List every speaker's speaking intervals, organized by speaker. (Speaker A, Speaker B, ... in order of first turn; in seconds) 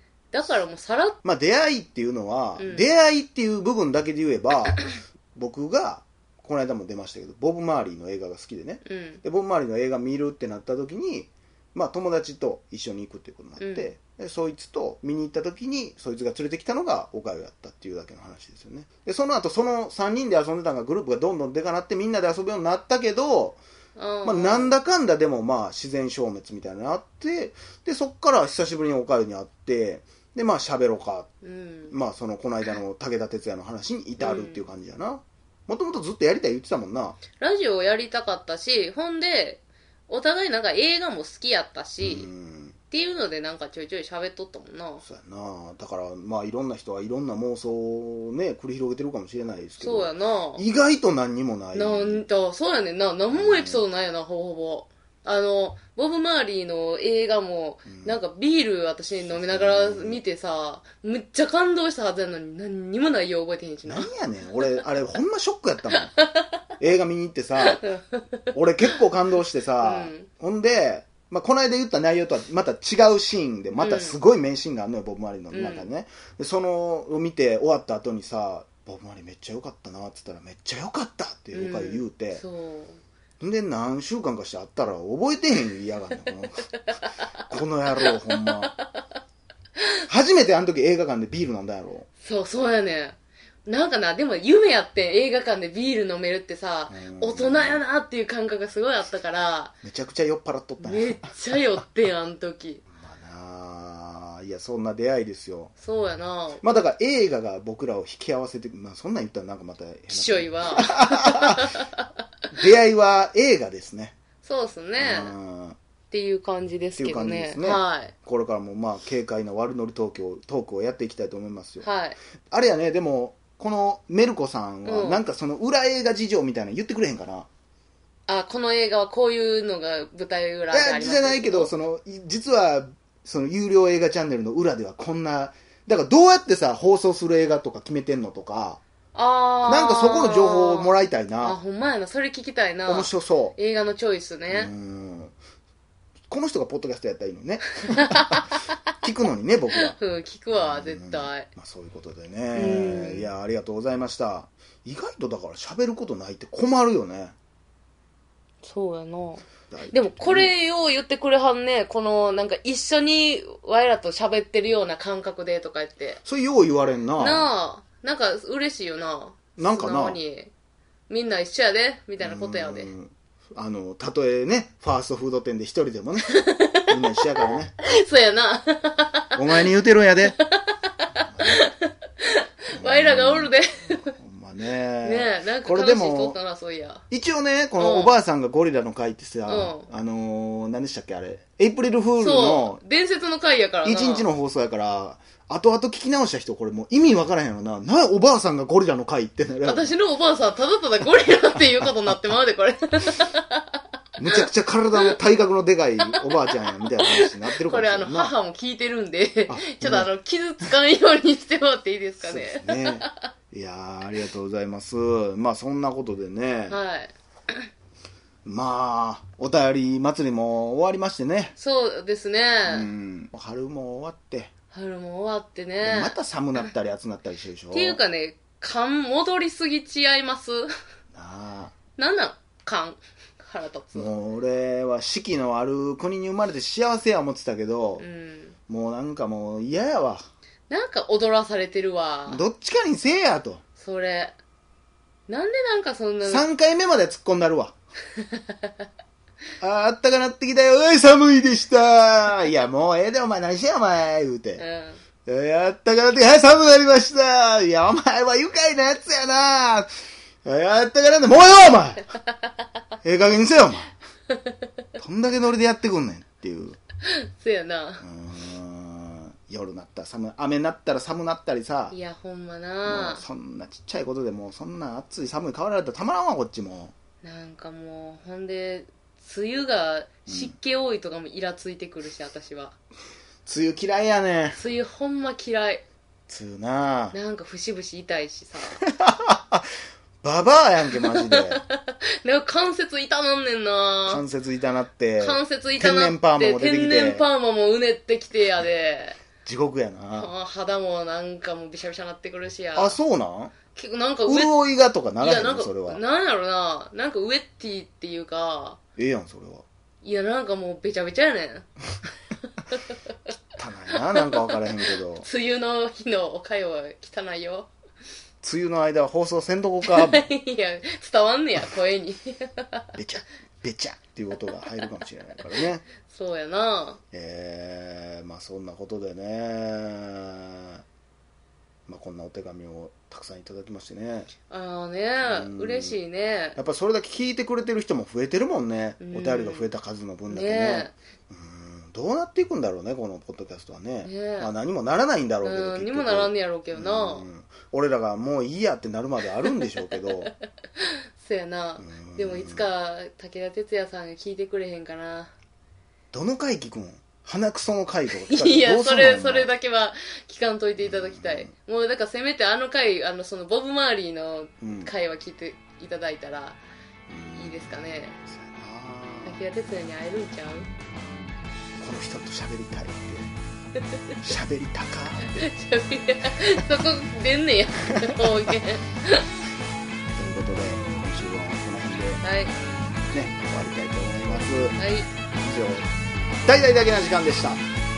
Speaker A: 0.3-1.2, 2.6-2.9, 8.8-9.2, 13.6-13.9, 23.9-24.8, 31.4-31.9, 34.2-34.6, 37.4-42.3, 42.9-45.0, 49.8-50.6, 51.7-64.1, 65.9-66.5, 67.6-68.5, 69.8-70.3, 73.8-74.2, 75.5-75.9, 81.5-83.0, 88.0-88.7, 92.2-99.7, 100.8-102.8, 105.8-106.8, 110.1-112.1, 114.4-115.3, 116.1-118.1, 121.8-122.2, 124.8-125.2, 128.3-131.7, 139.1-144.7, 147.8-148.7, 149.7-151.5, 152.5-153.3, 158.6-166.2, 167.2-170.5, 171.1-172.9, 176.3-179.4, 180.3-184.1, 185.0-187.0, 187.8-188.2, 189.5-189.9, 192.2-194.3, 199.6-203.8, 206.3-213.3, 216.7-217.6, 221.6-222.9, 224.7-226.2, 227.7-230.7, 232.0-234.1, 238.0-238.5, 240.7-242.4, 243.8-244.3, 245.3-246.5, 248.3-248.7, 254.6-255.0, 267.0-268.0, 271.9-273.2, 277.2-282.7, 284.5-285.8, 287.1-288.8, 291.0-294.2, 295.2-299.2, 300.1-303.0, 303.7-304.5, 305.2-308.8, 310.0-311.6, 313.9-317.7, 319.8-322.9, 326.0-327.0, 334.5-336.6, 339.0-339.7, 340.3-340.9, 344.0-344.5, 345.4-347.3, 350.8-355.3, 358.1-366.6, 367.3-368.1, 369.2-370.7, 375.2-379.3, 382.2-382.5, 384.8-385.1
Speaker B: 1.2-23.6, 24.2-31.3, 31.9-37.2, 42.0-42.8, 45.0-52.2, 53.3-53.8, 57.9-58.2, 59.2-60.2, 63.9-66.1, 66.8-67.8, 68.5-82.4, 83.4-86.7, 87.5-88.7, 90.0-92.1, 96.9-97.8, 99.8-101.3, 102.9-105.7, 106.6-111.8, 112.5-114.2, 115.0-115.8, 117.0-121.9, 122.5-127.5, 130.7-138.8, 139.7-141.6, 142.9-143.6, 144.5-145.3, 146.3-148.4, 149.0-149.9, 150.5-157.3, 159.7-160.5, 166.2-167.5, 169.6-170.2, 172.2-177.7, 179.3-180.4, 181.2-181.6, 182.7-183.5, 184.1-186.3, 187.1-192.8, 193.8-199.9, 204.2-208.3, 209.5-210.1, 212.2-216.8, 218.4-221.5, 222.7-224.5, 225.8-228.0, 231.1-231.7, 233.9-238.0, 238.7-240.2, 242.3-243.6, 246.2-247.7, 249.6-254.6, 255.2-259.9, 260.4-262.1, 263.0-263.9, 265.0-266.8, 268.0-271.9, 272.8-276.9, 280.3-280.5, 283.4-284.6, 286.3-287.1, 288.8-289.7, 290.2-291.6, 294.1-297.3, 299.4-300.3, 302.7-303.6, 304.2-306.0, 309.0-309.6, 313.6-315.2, 318.4-320.3, 322.9-325.9, 327.1-330.8, 331.9-334.3, 335.2-336.0, 336.6-350.3, 351.8-352.7, 356.1-359.5, 360.8-361.5, 364.6-364.9, 367.1-369.4, 370.9-373.3, 374.2-375.4, 378.1-378.5, 380.1-382.2, 383.1-384.8, 385.3-385.9, 386.4-387.6